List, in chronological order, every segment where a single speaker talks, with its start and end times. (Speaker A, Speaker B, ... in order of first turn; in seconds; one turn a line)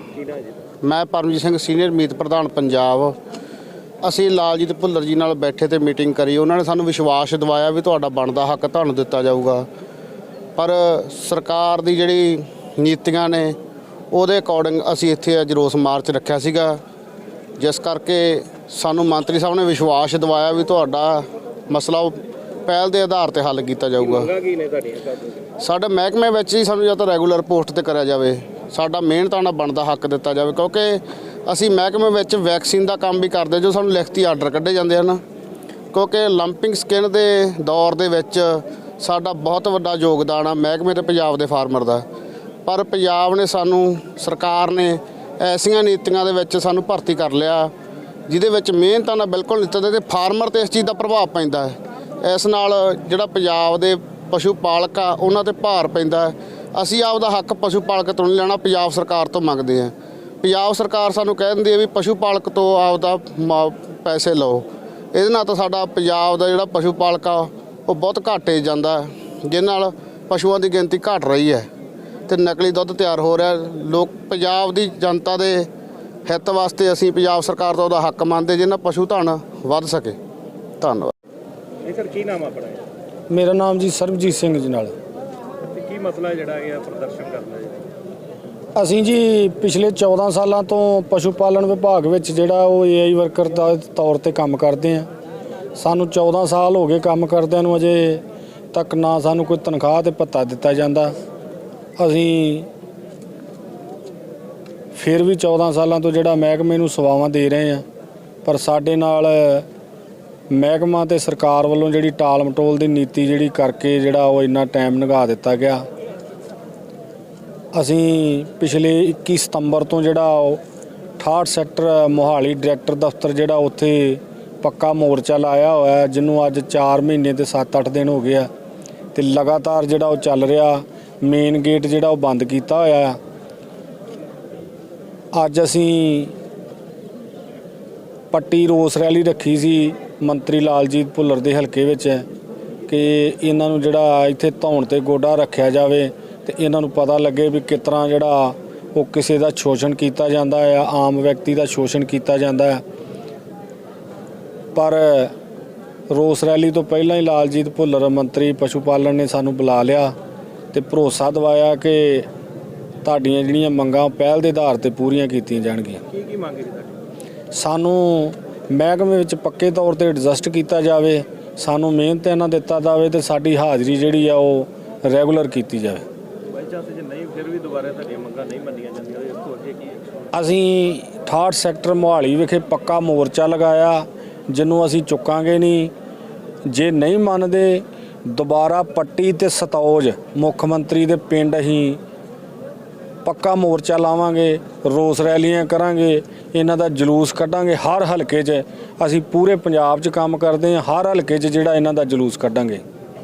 Speaker A: 0.2-0.5
Speaker B: 0.8-3.2
Speaker B: 4.0-9.7
Speaker B: 10.6-13.6
Speaker B: 14.1-16.8
Speaker B: 17.6-24.3
Speaker A: 24.0-25.4
Speaker B: 25.6-35.2
Speaker B: 35.9-42.0
Speaker B: 42.7-47.7
Speaker B: 48.3-71.7
Speaker B: 72.3-75.7
Speaker B: 76.3-80.2
Speaker B: 80.8-81.1
Speaker A: 81.8-82.8
Speaker C: 83.3-84.9
Speaker A: 85.6-87.8
Speaker C: 88.8-95.1
Speaker C: 95.8-101.1
Speaker C: 102.0-102.7
Speaker C: 104.9-107.8
Speaker C: 108.5-109.7
Speaker C: 110.5-115.8
Speaker C: 117.8-120.6
Speaker C: 121.2-128.5
Speaker C: 129.1-133.2
Speaker C: 135.3-136.3
Speaker C: 138.3-142.2
Speaker C: 142.9-152.8
Speaker C: 154.8-155.3
Speaker C: 156.1-160.1
Speaker C: 160.7-162.3
Speaker C: 163.0-166.0
Speaker A: 166.1-166.9
Speaker C: 167.5-176.0
Speaker A: 176.5-180.2
Speaker C: 180.3-185.9
Speaker C: 186.7-192.0
Speaker C: 193.2-202.8